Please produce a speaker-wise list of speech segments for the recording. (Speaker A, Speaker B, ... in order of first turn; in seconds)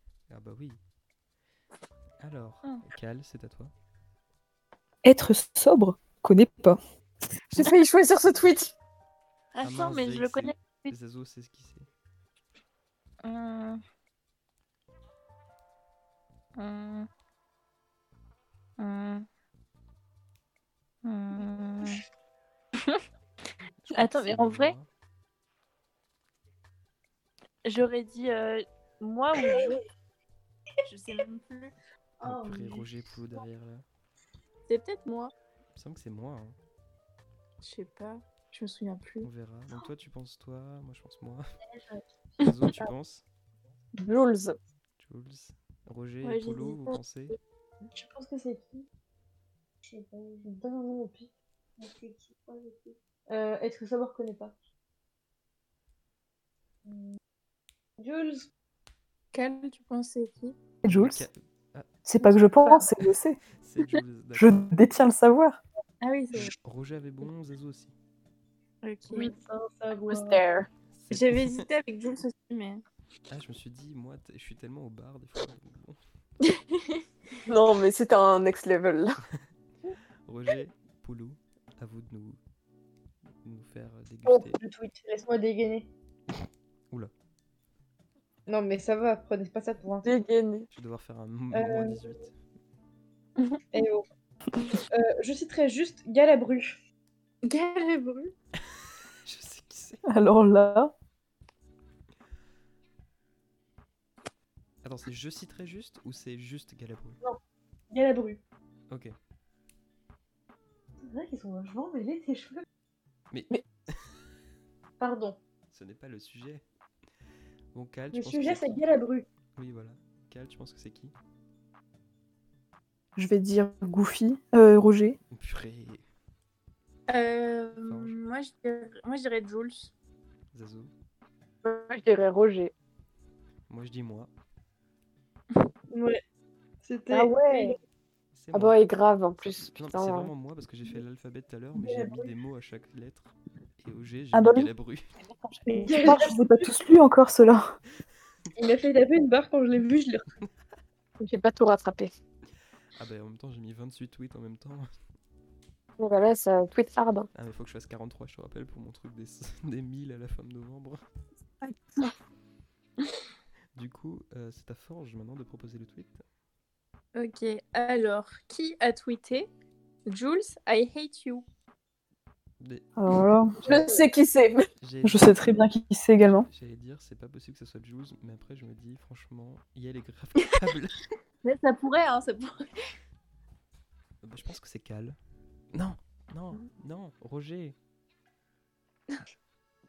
Speaker A: 0.3-0.8, 2.2-3.7, 9.6-11.9, 23.8-24.9, 32.2-33.8, 35.7-36.6, 39.2-41.5, 42.4-43.2, 45.0-47.4, 60.9-61.9, 63.5-64.8, 66.3-67.9, 70.9-71.7, 73.3-76.0, 80.2-82.4, 83.4-84.6, 90.7-92.3, 99.2-100.0, 104.8-107.2, 108.9-109.1, 113.3-113.6, 115.7-116.6, 117.7-118.8, 119.5-121.1, 125.3-126.0, 127.8-128.2, 130.5-130.9, 133.7-134.3, 138.3-138.8, 139.6-145.1, 152.9-154.9, 157.3-161.0, 163.7-166.2, 172.6-172.9, 174.8-175.7, 176.2-181.0, 184.2-185.2, 185.7-187.8
Speaker B: 5.0-6.8, 60.8-61.3, 62.0-63.4, 64.3-65.6, 100.0-100.9, 123.2-125.2, 144.3-144.7, 145.7-147.8, 172.9-173.6, 175.0-176.5
Speaker C: 7.5-8.7, 44.0-44.6, 70.1-70.7, 77.5-79.1, 90.0-90.7, 131.6-132.7, 137.1-137.7, 138.5-140.3, 151.2-152.1, 156.0-157.3, 161.6-162.0, 173.6-174.7
Speaker D: 9.5-10.9, 13.2-13.8, 16.6-17.1, 18.8-19.2, 21.0-22.0, 23.9-24.7, 27.6-29.8, 30.9-31.7, 34.7-35.3, 37.6-39.3, 46.2-47.0, 59.3-60.5, 66.0-66.5, 68.8-69.3, 71.1-72.8, 76.4-77.0, 93.4-93.6, 97.4-98.3, 127.1-129.9, 167.1-169.5, 170.1-171.4, 181.4-182.7
Speaker E: 32.2-32.9, 41.8-42.0, 47.8-48.9, 49.8-54.5, 56.9-57.2, 58.0-58.5, 69.1-70.4, 84.6-85.9, 88.5-90.1, 91.5-92.2, 93.7-94.0, 94.9-96.8, 107.9-108.4, 111.0-112.6, 115.0-115.4, 118.1-119.2, 135.9-136.2, 136.8-137.8, 141.8-142.3, 145.7-146.7, 148.5-150.2